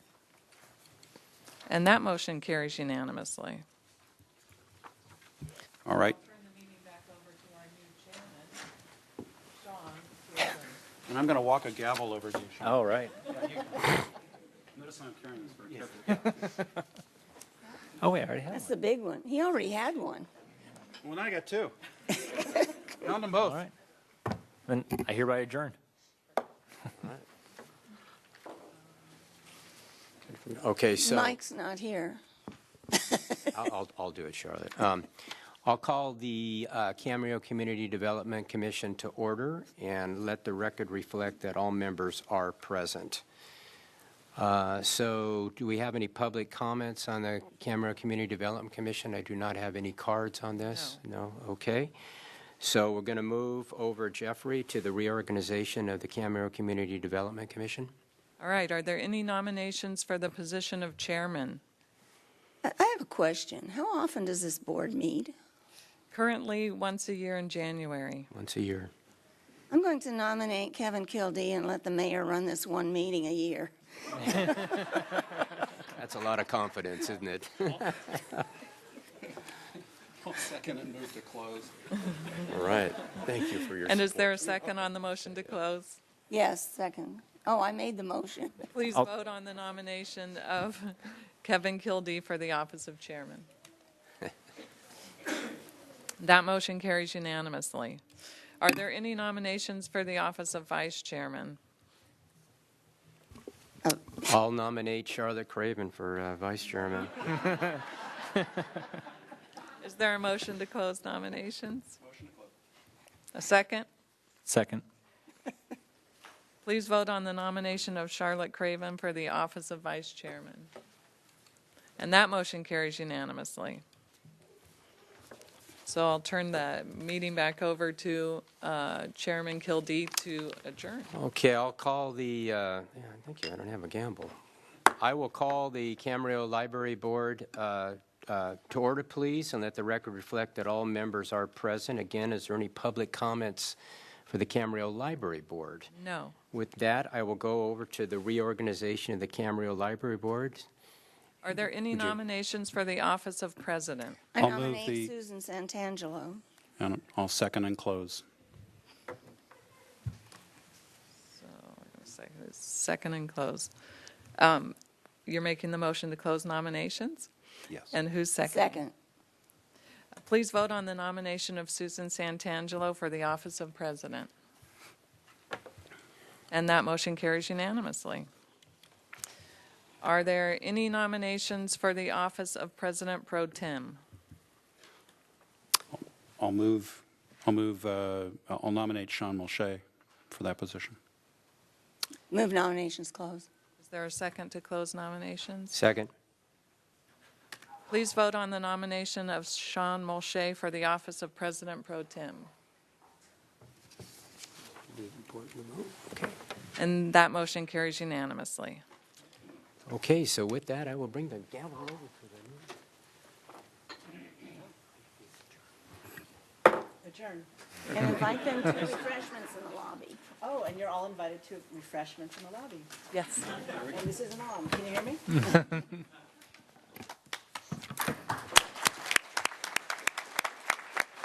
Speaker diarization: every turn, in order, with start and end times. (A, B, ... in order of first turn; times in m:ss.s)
0:01.7-0:03.6 A
0:05.8-0:06.2 B
0:06.1-0:08.6 A
0:09.6-0:10.8 A
0:11.1-0:12.8 B
0:12.6-0:13.1 C
0:14.7-0:16.3 B
0:18.0-0:18.7 C
0:18.5-0:20.3 D
0:21.0-0:21.7 B
0:22.5-0:23.6 B
0:23.4-0:23.7 C
0:24.7-0:25.8 C
0:27.0-0:27.2 E
0:30.3-0:31.4 E
0:31.0-0:32.2 D
0:32.9-0:33.5 D
0:33.5-0:35.1 E
0:35.6-0:43.2 E
0:44.4-0:51.9 E
0:50.7-0:51.0 A
0:52.6-0:57.9 E
0:58.4-1:01.6 A
1:02.6-1:05.3 D
1:06.1-1:08.3 A
1:08.3-1:08.9 E
1:09.7-1:14.7 D
1:15.8-1:18.4 E
1:20.2-1:21.7 B
1:22.4-1:24.6 E
1:23.8-1:26.0 A
1:26.3-1:28.6 D
1:28.7-1:33.5 A
1:36.2-1:38.0 A
1:38.6-1:41.6 A
1:44.2-1:47.5 E
1:49.8-1:52.0 A
1:53.3-1:53.9 A
1:54.4-1:54.8 C
1:56.6-2:00.7 A
2:02.0-2:03.8 A
2:05.8-2:11.1 A
2:11.1-2:14.4 E
2:15.0-2:25.9 E
2:25.9-2:26.3 A
2:26.5-2:30.6 E
2:31.4-2:34.2 A
2:34.3-2:36.4 D
2:34.4-2:35.1 B
2:36.8-2:38.2 B
2:41.3-2:43.7 A
2:44.4-2:47.3 A
2:47.9-2:48.8 A
2:48.5-2:48.9 D
2:50.2-2:54.3 A
2:56.5-2:58.3 A
3:00.0-3:04.0 A
3:05.9-3:11.0 B
3:12.3-3:13.5 D
3:13.8-3:15.8 A
3:15.7-3:16.1 E
3:17.9-3:22.5 A
3:25.1-3:26.3 E
3:26.8-3:28.8 A
3:29.9-3:32.6 E
3:37.0-3:37.5 F
3:37.9-3:40.2 D
3:40.4-3:42.9 F
3:43.1-3:43.5 A
3:43.8-3:45.6 F